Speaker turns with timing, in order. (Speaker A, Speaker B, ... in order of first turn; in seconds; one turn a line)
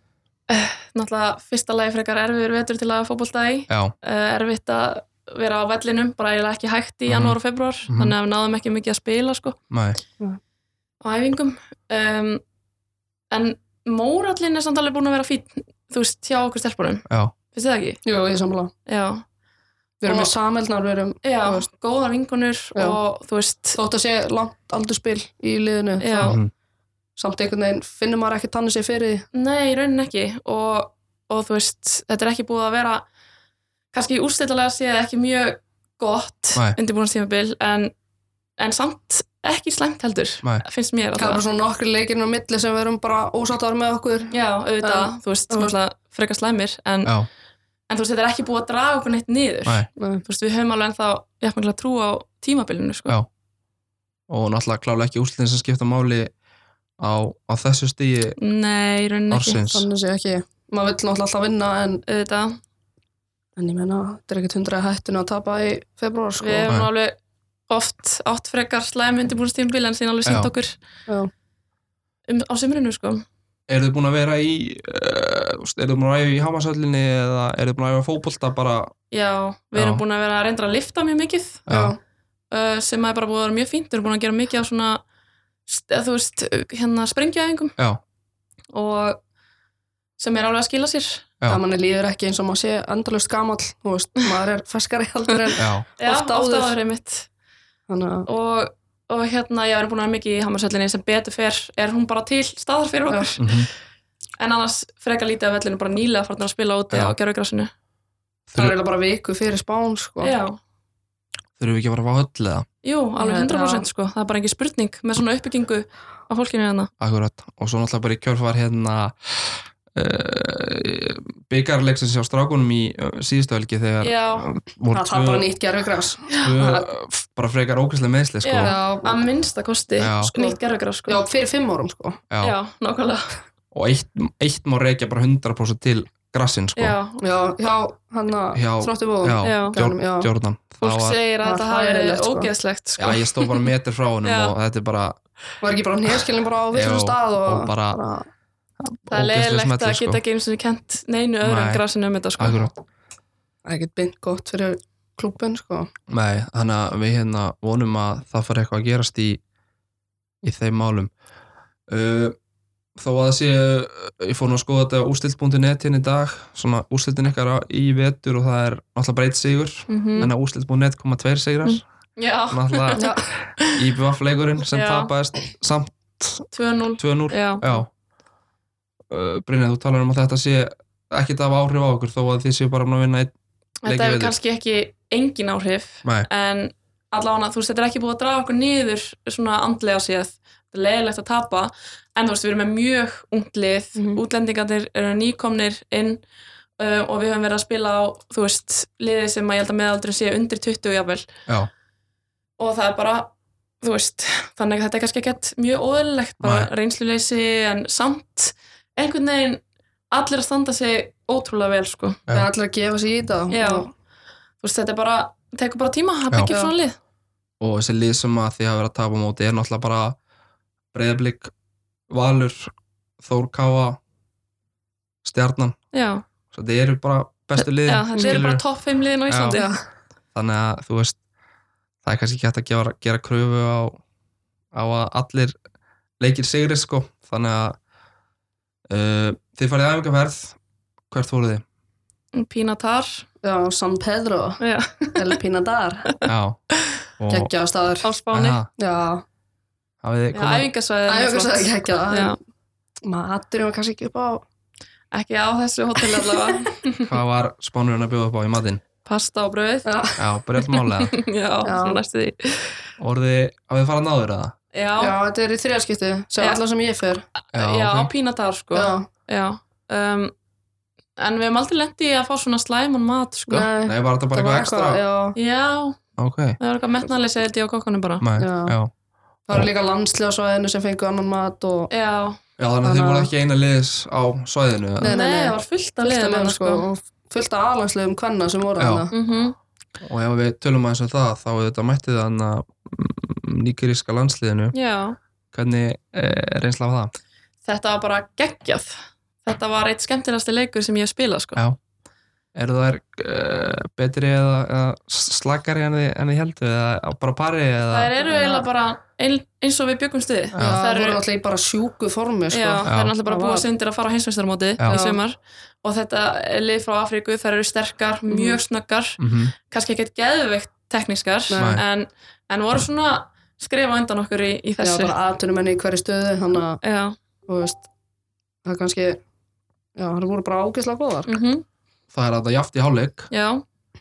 Speaker A: 0.5-9.6
Speaker B: 3.7-3.9
Speaker B: 7.1-7.3
Speaker B: 7.9-8.1
Speaker B: 9.7-10.0
Speaker A: 11.0-12.4
Speaker A: 13.3-18.0
Speaker C: 18.0-18.7
Speaker A: 18.9-19.2
Speaker C: 20.0-21.6
Speaker A: 21.2-23.8
Speaker C: 22.7-23.0
Speaker C: 23.8-26.4
Speaker A: 26.0-26.4
Speaker B: 26.2-26.5
Speaker C: 27.2-29.2
Speaker A: 29.3-33.0
Speaker A: 33.9-37.9
Speaker A: 38.6-41.4
Speaker C: 41.1-45.7
Speaker A: 44.3-47.1
Speaker A: 47.9-53.1
Speaker C: 50.0-50.2
Speaker B: 54.3-56.3
Speaker B: 57.0-58.4
Speaker A: 58.4-59.6
Speaker B: 59.3-59.9
Speaker C: 59.7-62.0
Speaker A: 62.0-62.6
Speaker C: 63.6-66.7
Speaker A: 66.4-67.2
Speaker A: 67.7-70.8
Speaker B: 70.2-70.5
Speaker A: 72.3-73.2
Speaker B: 73.7-78.9
Speaker A: 79.1-81.7
Speaker B: 79.8-80.0
Speaker B: 81.7-81.9
Speaker C: 81.7-82.0
Speaker A: 82.5-85.0
Speaker A: 85.7-87.7
Speaker A: 88.7-89.2
Speaker A: 90.2-91.3
Speaker C: 91.5-96.7
Speaker B: 95.6-95.8
Speaker A: 96.0-97.3
Speaker C: 97.9-98.3
Speaker A: 98.3-103.5
Speaker C: 103.1-103.3
Speaker B: 103.4-103.7
Speaker A: 104.4-107.7
Speaker C: 108.5-110.3
Speaker A: 110.2-110.6
Speaker B: 111.6-112.7
Speaker A: 112.8-116.9
Speaker C: 113.2-113.8
Speaker B: 117.0-125.5
Speaker A: 124.0-124.5
Speaker C: 124.9-126.8
Speaker B: 126.4-128.8
Speaker A: 128.4-131.2
Speaker C: 128.6-129.2
Speaker B: 130.0-130.3
Speaker C: 130.3-132.2
Speaker B: 132.3-132.5
Speaker A: 132.4-133.4
Speaker B: 133.7-136.9
Speaker A: 136.8-137.2
Speaker C: 137.2-140.3
Speaker B: 138.5-141.2
Speaker A: 139.4-139.8
Speaker A: 140.8-143.7
Speaker C: 141.4-142.5
Speaker B: 143.0-145.2
Speaker A: 144.2-144.5
Speaker C: 145.6-148.3
Speaker B: 146.7-148.0
Speaker B: 149.0-150.2
Speaker A: 149.1-152.6
Speaker B: 151.4-151.8
Speaker B: 152.4-152.7
Speaker C: 153.6-155.9
Speaker B: 156.1-159.4
Speaker B: 160.4-161.1
Speaker B: 161.9-162.3
Speaker B: 163.0-171.8
Speaker A: 169.9-170.3
Speaker A: 171.6-173.1
Speaker B: 172.5-176.5
Speaker C: 172.9-173.2
Speaker A: 174.7-175.1
Speaker A: 176.5-177.6
Speaker B: 177.0-177.9
Speaker B: 179.1-183.3
Speaker A: 183.8-196.2
Speaker B: 183.8-184.3
Speaker C: 193.9-194.2
Speaker A: 196.8-201.3
Speaker A: 202.6-212.2
Speaker B: 206.4-206.7
Speaker C: 212.3-213.9
Speaker A: 213.5-213.9
Speaker A: 214.6-217.0
Speaker B: 217.6-220.2
Speaker B: 220.9-221.5
Speaker B: 222.1-224.0
Speaker B: 225.2-225.8
Speaker A: 225.9-226.2
Speaker B: 226.5-228.6
Speaker A: 227.6-229.7
Speaker C: 228.2-228.4
Speaker B: 229.3-229.6
Speaker C: 229.5-229.8
Speaker B: 230.3-231.2
Speaker B: 232.0-234.0
Speaker B: 234.7-235.5
Speaker B: 236.2-237.8
Speaker B: 238.9-240.6
Speaker B: 241.1-241.6
Speaker A: 242.3-243.2
Speaker C: 243.4-244.6
Speaker A: 244.6-245.3
Speaker C: 245.1-246.1
Speaker B: 246.2-246.6
Speaker B: 247.2-247.5
Speaker C: 247.3-248.1
Speaker A: 248.0-248.6
Speaker B: 248.3-248.7
Speaker C: 248.8-249.2
Speaker B: 250.0-250.7
Speaker A: 250.3-252.4
Speaker C: 251.1-252.3
Speaker C: 253.0-254.4
Speaker A: 255.1-257.1
Speaker C: 256.1-256.6
Speaker B: 257.0-258.8
Speaker A: 259.0-260.0
Speaker C: 259.8-260.2
Speaker B: 260.2-261.1
Speaker A: 260.7-262.8
Speaker C: 261.6-262.0
Speaker B: 263.0-264.5
Speaker A: 264.7-265.1
Speaker C: 265.0-267.2
Speaker A: 267.5-270.3
Speaker B: 267.5-268.1
Speaker C: 268.7-269.1
Speaker A: 271.2-273.7
Speaker C: 273.5-275.4
Speaker B: 273.8-275.0
Speaker A: 275.3-276.0
Speaker B: 276.2-276.6
Speaker A: 276.6-278.2
Speaker B: 278.2-278.9
Speaker C: 278.4-278.8
Speaker C: 279.5-281.9
Speaker A: 281.9-282.4
Speaker B: 282.6-285.1
Speaker C: 282.8-283.3
Speaker C: 285.0-289.1
Speaker A: 285.0-286.8
Speaker B: 288.8-289.1
Speaker A: 289.1-289.6
Speaker B: 290.0-294.7
Speaker A: 294.7-295.2
Speaker B: 295.5-297.1
Speaker A: 297.6-301.6
Speaker B: 302.5-308.1
Speaker A: 307.9-311.2
Speaker C: 308.2-308.6
Speaker B: 310.5-310.8
Speaker C: 310.6-313.6
Speaker A: 312.5-325.1
Speaker B: 312.9-313.1
Speaker C: 314.9-315.2
Speaker C: 318.3-318.6
Speaker B: 319.2-319.5
Speaker C: 321.5-321.8
Speaker B: 321.6-321.8
Speaker C: 324.8-326.8
Speaker A: 326.8-327.2
Speaker C: 327.5-327.8
Speaker C: 328.6-329.2
Speaker C: 329.9-331.3
Speaker A: 331.2-331.6
Speaker B: 332.1-333.3
Speaker A: 333.3-333.6